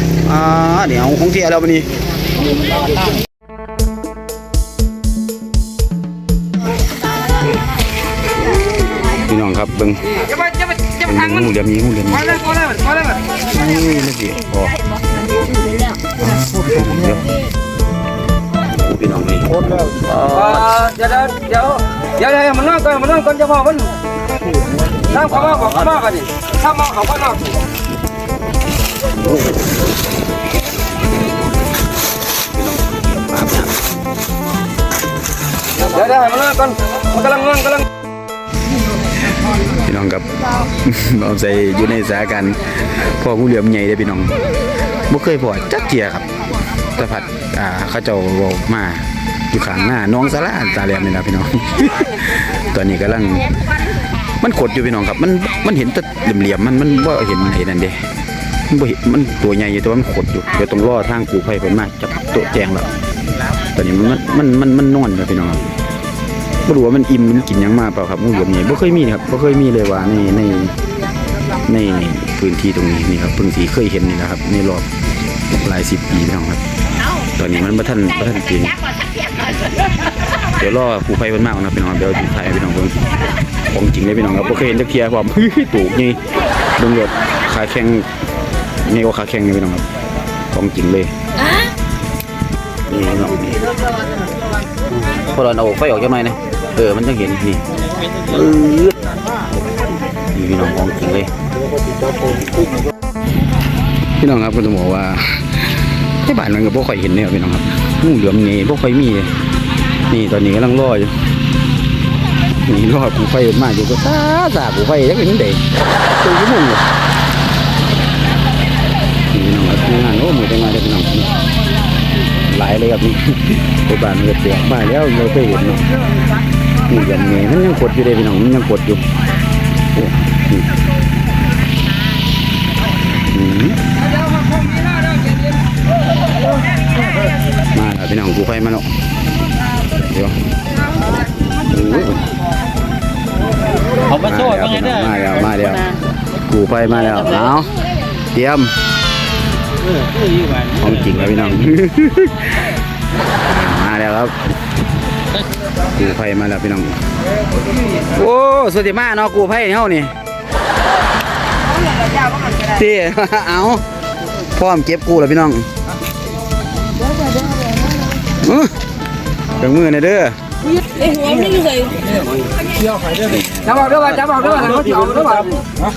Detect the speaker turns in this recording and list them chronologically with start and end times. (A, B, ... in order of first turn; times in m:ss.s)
0:00.2-0:01.9 A
0:09.2-0:10.2 A
0:10.4-0:10.8 B
0:11.0-0:12.4 A
0:12.3-0:13.3 B
0:13.4-0:14.7 A
0:16.5-0:17.3 A
0:18.7-0:20.8 A
0:20.4-0:23.9 B
0:25.1-0:27.6 B
0:25.1-0:26.0 A
0:32.5-0:33.8 A
0:35.8-0:37.8 B
0:39.7-0:44.3 A
0:45.1-0:46.3 A
0:46.9-0:53.5 A
0:54.4-0:58.0 A
0:58.7-1:02.9 A
1:03.7-1:05.7 A
1:06.6-1:10.8 A
1:11.6-1:14.8 A
1:15.6-1:16.6 A
1:17.3-1:18.9 A
1:20.6-1:23.0 A
1:23.7-1:26.2 A
1:26.8-1:28.1 A
1:28.8-1:29.8 A
1:30.5-1:31.1 A
1:32.9-1:33.6 A
1:35.1-1:39.0 A
1:40.3-1:41.3 A
1:44.2-1:49.3 A
1:50.1-1:51.2 A
1:52.6-1:56.9 A
1:59.3-2:01.3 A
2:02.4-2:05.8 A
2:06.8-2:09.0 A
2:09.9-2:10.7 A
2:13.3-2:13.8 A
2:14.1-2:15.4 B
2:17.7-2:18.9 A
2:20.0-2:20.4 A
2:21.5-2:22.3 A
2:24.0-2:27.8 A
2:28.3-2:28.7 A
2:30.7-2:32.7 A
2:33.4-2:34.3 A
2:36.0-2:37.0 A
2:38.1-2:40.1 A
2:42.1-2:42.4 C
2:42.5-2:43.8 A
2:44.5-2:45.7 A
2:47.4-2:47.6 C
2:48.4-2:48.7 A
2:49.6-2:50.4 A
2:50.9-2:52.1 C
2:53.2-2:53.7 A
2:53.6-2:55.6 B